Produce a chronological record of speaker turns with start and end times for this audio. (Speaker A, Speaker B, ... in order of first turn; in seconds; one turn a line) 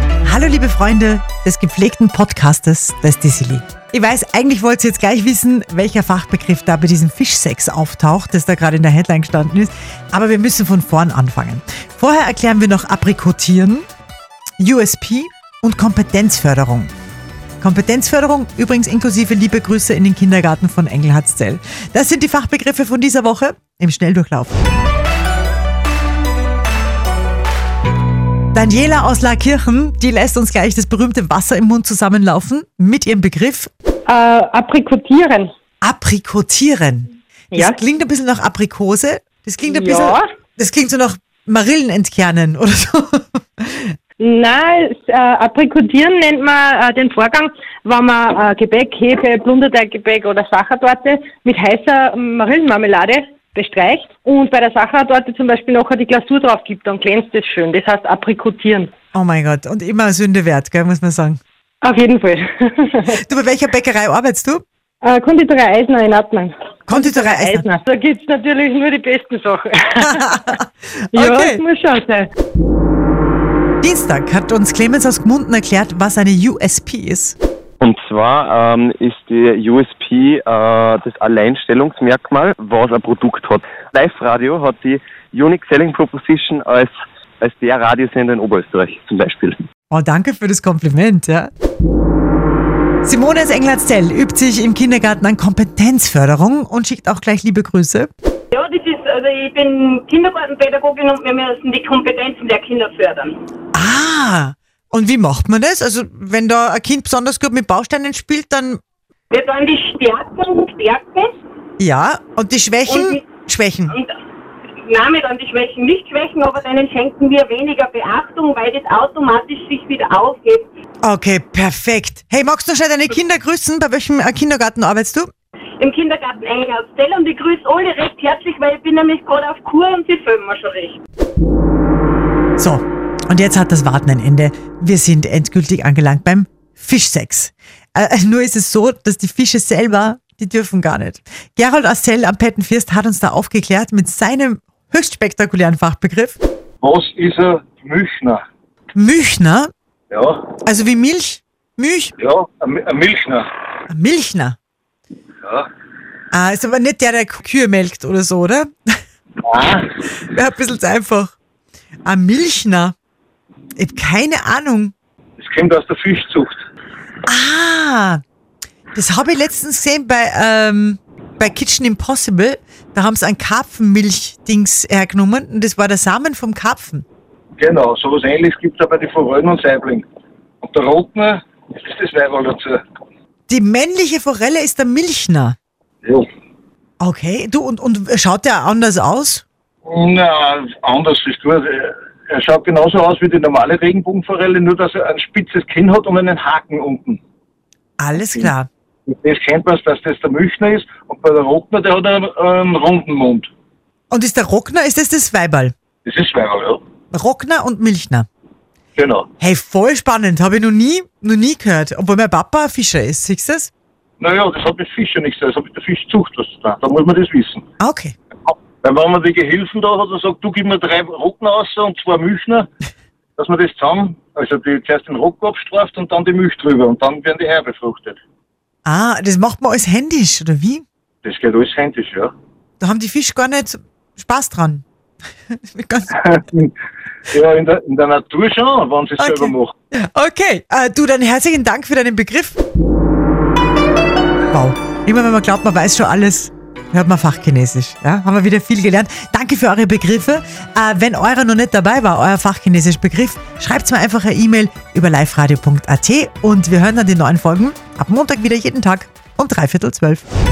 Speaker A: 0.2-13.8
Speaker A: 14.6-16.9
Speaker A: 17.6-24.6
Speaker A: 28.6-33.7
Speaker B: 34.1-35.5
Speaker A: 35.8-43.9
Speaker B: 37.5-37.8
Speaker B: 39.7-40.2
Speaker B: 44.2-58.9
Speaker A: 59.1-61.4
Speaker B: 61.8-63.2
Speaker A: 63.1-64.6
Speaker B: 65.0-70.6
Speaker A: 66.9-67.6
Speaker A: 70.0-71.6
Speaker B: 71.1-72.3
Speaker A: 73.8-77.4
Speaker C: 77.8-89.6
Speaker A: 89.9-91.5
Speaker A: 93.0-98.1
Speaker D: 98.5-103.4
Speaker A: 103.8-108.8
Speaker D: 109.3-111.3
Speaker A: 111.8-114.0
Speaker D: 112.9-113.3
Speaker D: 114.8-120.7
Speaker A: 121.0-125.3
Speaker D: 125.8-131.0
Speaker A: 132.6-146.4
Speaker E: 146.8-148.4
Speaker A: 148.9-149.7
Speaker E: 150.1-150.5
Speaker A: 150.7-152.1
Speaker E: 152.2-153.5
Speaker A: 153.9-154.6
Speaker A: 156.3-158.7
Speaker E: 159.4-159.9
Speaker A: 160.2-161.3
Speaker A: 162.1-162.9
Speaker A: 163.8-164.9
Speaker E: 165.4-166.7
Speaker A: 167.3-168.2
Speaker A: 168.9-177.0
Speaker E: 177.6-180.1
Speaker E: 180.6-182.8
Speaker A: 183.5-185.6
Speaker A: 187.0-189.4
Speaker E: 189.9-197.2
Speaker A: 198.0-198.7
Speaker E: 198.2-198.5
Speaker E: 199.1-203.5
Speaker A: 204.1-205.7
Speaker E: 206.1-206.8
Speaker A: 207.1-208.3
Speaker E: 209.0-209.3
Speaker A: 209.4-213.7
Speaker E: 214.2-217.7
Speaker A: 217.8-218.2
Speaker E: 218.5-222.7
Speaker E: 223.4-228.2
Speaker A: 228.8-230.8
Speaker E: 231.2-232.3
Speaker A: 232.8-234.8
Speaker A: 235.5-236.2
Speaker E: 236.2-236.7
Speaker E: 237.3-239.7
Speaker A: 239.2-242.6
Speaker A: 244.5-260.2